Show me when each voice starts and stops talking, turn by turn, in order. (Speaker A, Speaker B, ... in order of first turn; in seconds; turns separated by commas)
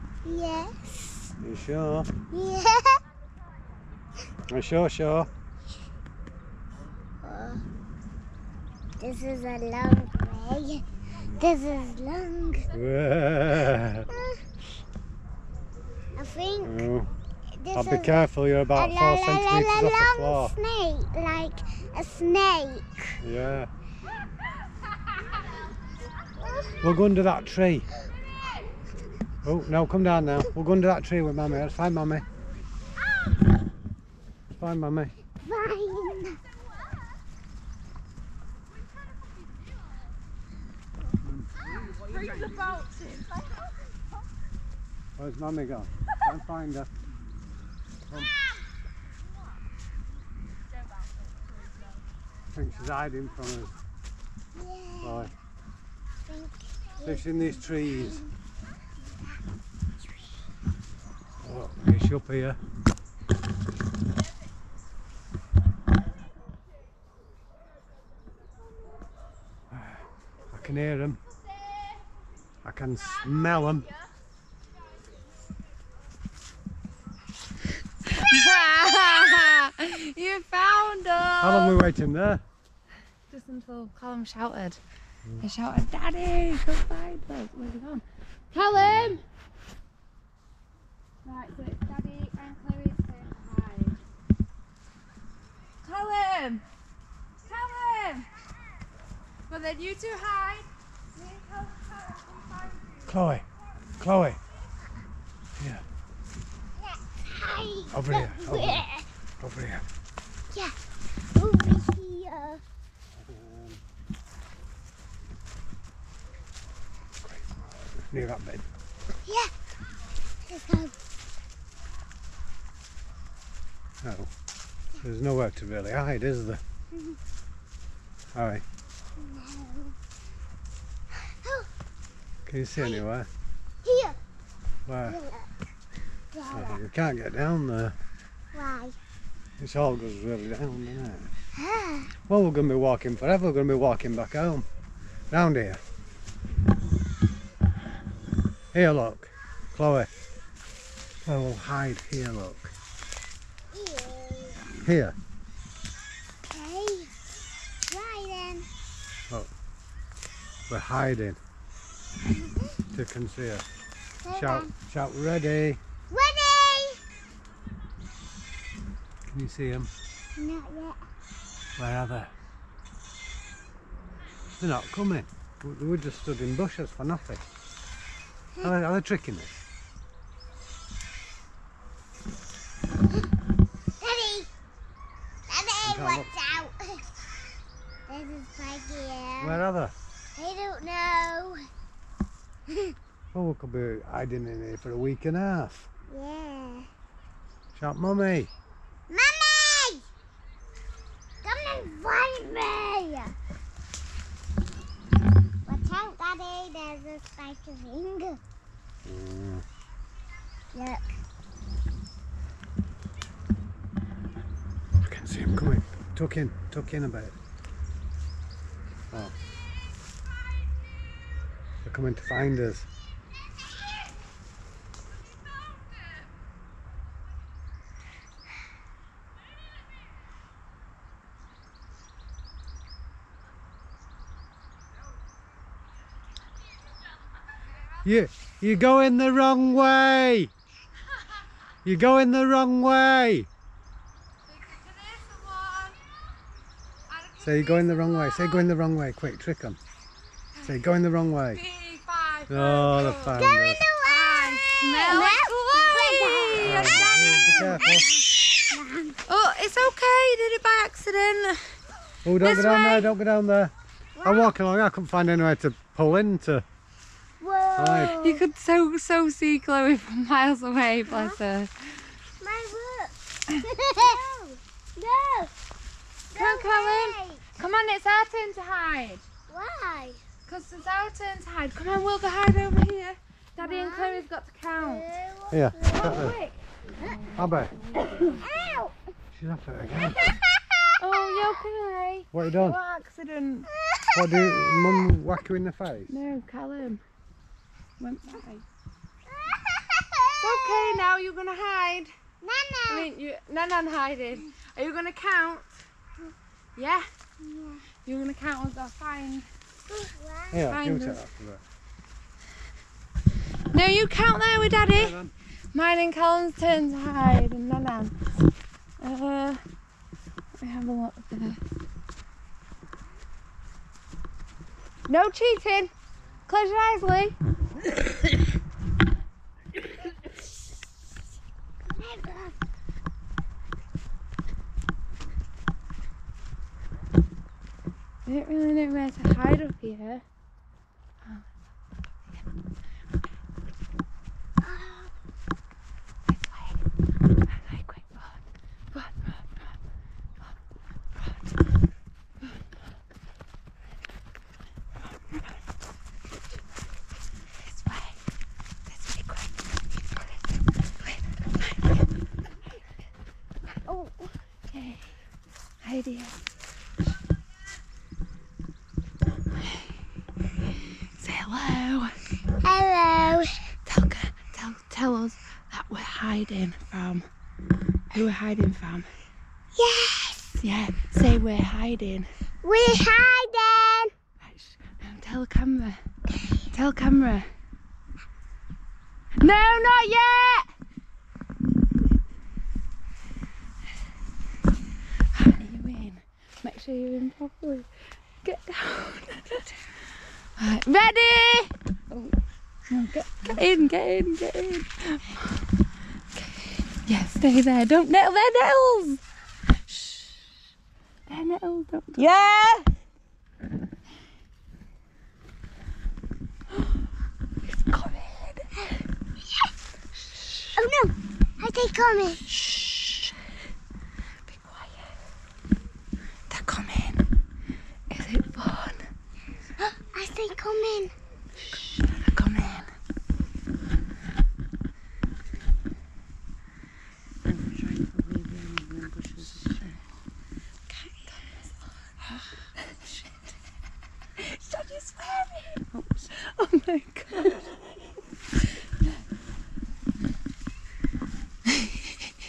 Speaker A: 0.2-1.3, Speaker B: 1.4-2.1, Speaker A: 2.3-3.0, Speaker B: 4.5-5.3, Speaker A: 7.2-7.6, Speaker A: 9.0-12.7, Speaker B: 12.7-14.1, Speaker A: 14.1-14.4, Speaker A: 16.2-16.9, Speaker B: 16.6-17.1, Speaker A: 17.5-23.2, Speaker B: 17.7-20.6, Speaker B: 23.2-23.7, Speaker A: 26.4-26.8, Speaker B: 26.8-27.9, Speaker B: 29.4-32.3, Speaker B: 34.5-35.1, Speaker A: 35.4-36.4, Speaker C: 41.8-43.6, Speaker B: 45.2-46.9, Speaker B: 52.5-53.8, Speaker A: 54.5-55.3, Speaker B: 55.0-55.3, Speaker A: 56.3-58.3, Speaker B: 57.0-58.2, Speaker B: 61.4-62.6, Speaker B: 69.7-71.2, Speaker B: 72.6-73.9, Speaker C: 78.0-81.8, Speaker B: 81.4-82.4, Speaker C: 83.3-84.8, Speaker C: 85.4-89.2, Speaker B: 88.7-89.2, Speaker C: 91.2-94.0, Speaker C: 95.8-96.6, Speaker C: 97.4-98.3, Speaker C: 99.5-103.2, Speaker B: 103.1-104.4, Speaker B: 105.6-105.8, Speaker A: 106.8-109.1, Speaker B: 107.9-108.9, Speaker B: 109.4-109.9, Speaker A: 111.3-112.6, Speaker B: 113.2-113.8, Speaker B: 117.2-118.7, Speaker A: 119.2-119.5, Speaker A: 120.5-120.9, Speaker B: 124.0-124.3, Speaker B: 125.0-126.6, Speaker B: 128.3-128.6, Speaker A: 129.2-129.9, Speaker A: 131.1-131.7, Speaker B: 132.5-133.3, Speaker A: 132.8-133.0, Speaker A: 133.8-134.2, Speaker B: 134.9-135.2, Speaker A: 135.1-135.5, Speaker A: 136.3-136.8, Speaker B: 136.5-137.9, Speaker A: 138.5-139.0, Speaker B: 139.6-141.3, Speaker A: 141.6-142.1, Speaker B: 142.3-144.7, Speaker B: 145.3-145.8, Speaker B: 148.7-150.1, Speaker B: 151.3-152.7, Speaker A: 153.7-154.7, Speaker B: 154.8-155.2, Speaker A: 156.5-157.1, Speaker A: 157.9-158.7, Speaker B: 160.7-161.4, Speaker A: 162.3-162.8, Speaker B: 162.9-163.7, Speaker A: 164.2-164.7, Speaker B: 164.3-165.8, Speaker A: 166.1-167.0, Speaker B: 169.3-169.9, Speaker A: 170.4-171.0, Speaker B: 171.8-172.3, Speaker B: 174.6-177.4, Speaker B: 178.6-179.6, Speaker A: 184.0-184.5, Speaker A: 185.5-187.0, Speaker B: 185.8-186.3, Speaker A: 188.1-189.6, Speaker B: 189.4-189.9, Speaker A: 190.3-191.7, Speaker A: 192.7-192.9, Speaker B: 193.3-195.9, Speaker A: 196.1-196.9, Speaker B: 197.7-198.5, Speaker A: 199.1-200.1, Speaker A: 201.4-203.4, Speaker A: 205.7-208.4, Speaker B: 209.0-209.7, Speaker A: 210.7-211.2, Speaker B: 215.0-217.4, Speaker B: 221.8-222.9, Speaker B: 238.1-240.5, Speaker B: 241.8-243.5, Speaker C: 244.5-246.0, Speaker C: 247.1-248.7, Speaker B: 247.4-249.8, Speaker B: 250.6-251.6, Speaker C: 251.5-253.4, Speaker B: 252.5-253.8, Speaker A: 253.1-257.1, Speaker C: 254.0-258.1, Speaker B: 256.6-258.1, Speaker A: 257.8-259.2, Speaker C: 259.3-261.8, Speaker B: 262.2-263.7, Speaker C: 262.4-263.1, Speaker A: 264.2-264.5, Speaker B: 264.2-266.6, Speaker A: 267.4-268.4, Speaker B: 267.8-268.2, Speaker C: 268.2-271.9, Speaker A: 271.1-271.4, Speaker A: 272.4-275.5, Speaker A: 276.3-277.5, Speaker C: 276.3-279.3, Speaker A: 279.5-280.2, Speaker C: 280.5-285.2, Speaker A: 283.6-286.3, Speaker B: 285.5-286.4, Speaker C: 285.9-288.8, Speaker B: 287.4-287.8, Speaker A: 288.3-289.0, Speaker B: 289.3-290.2, Speaker A: 290.7-291.5, Speaker C: 291.0-293.7, Speaker B: 292.3-292.8, Speaker A: 293.8-295.1, Speaker B: 294.1-296.1, Speaker C: 296.1-297.0, Speaker C: 298.0-298.6, Speaker A: 299.3-301.0, Speaker C: 300.4-302.1, Speaker A: 302.4-303.1, Speaker C: 302.9-305.8, Speaker C: 306.8-307.1, Speaker A: 307.4-307.9, Speaker C: 308.1-309.5, Speaker A: 309.9-310.6, Speaker B: 310.5-311.6, Speaker C: 310.7-311.2, Speaker C: 313.7-315.2, Speaker B: 314.9-315.3, Speaker C: 315.7-318.1, Speaker C: 319.0-319.6, Speaker C: 320.6-321.6, Speaker C: 325.1-325.9, Speaker C: 326.5-327.4, Speaker A: 332.0-332.6, Speaker C: 338.3-340.2, Speaker C: 341.2-341.5, Speaker A: 344.6-345.1, Speaker C: 346.3-346.8, Speaker C: 347.5-348.4, Speaker C: 348.9-349.8, Speaker C: 351.2-351.4, Speaker C: 355.0-355.6, Speaker C: 357.6-358.2, Speaker C: 358.9-359.5, Speaker C: 360.1-362.1, Speaker A: 363.9-364.4, Speaker C: 364.7-365.1, Speaker C: 365.8-366.4, Speaker C: 369.6-369.9, Speaker C: 371.2-372.2, Speaker A: 372.6-373.7, Speaker C: 373.9-377.3, Speaker C: 378.1-379.1, Speaker A: 379.8-380.6, Speaker C: 380.6-382.3, Speaker A: 382.6-384.1, Speaker C: 384.4-386.0, Speaker C: 386.7-387.5, Speaker C: 389.4-390.7, Speaker C: 395.3-397.9, Speaker C: 398.4-402.4, Speaker C: 402.9-405.7, Speaker C: 406.3-409.2, Speaker C: 409.9-410.5, Speaker C: 411.3-412.2, Speaker A: 412.2-412.9, Speaker C: 416.7-417.0, Speaker C: 417.7-419.0, Speaker C: 420.3-420.8, Speaker A: 420.8-422.4, Speaker C: 422.5-423.4, Speaker C: 424.5-425.1, Speaker C: 426.5-427.2, Speaker C: 428.1-429.1, Speaker A: 429.8-431.1, Speaker C: 431.7-432.9, Speaker C: 437.4-440.0, Speaker C: 440.9-443.3, Speaker C: 444.4-447.8, Speaker C: 451.7-452.2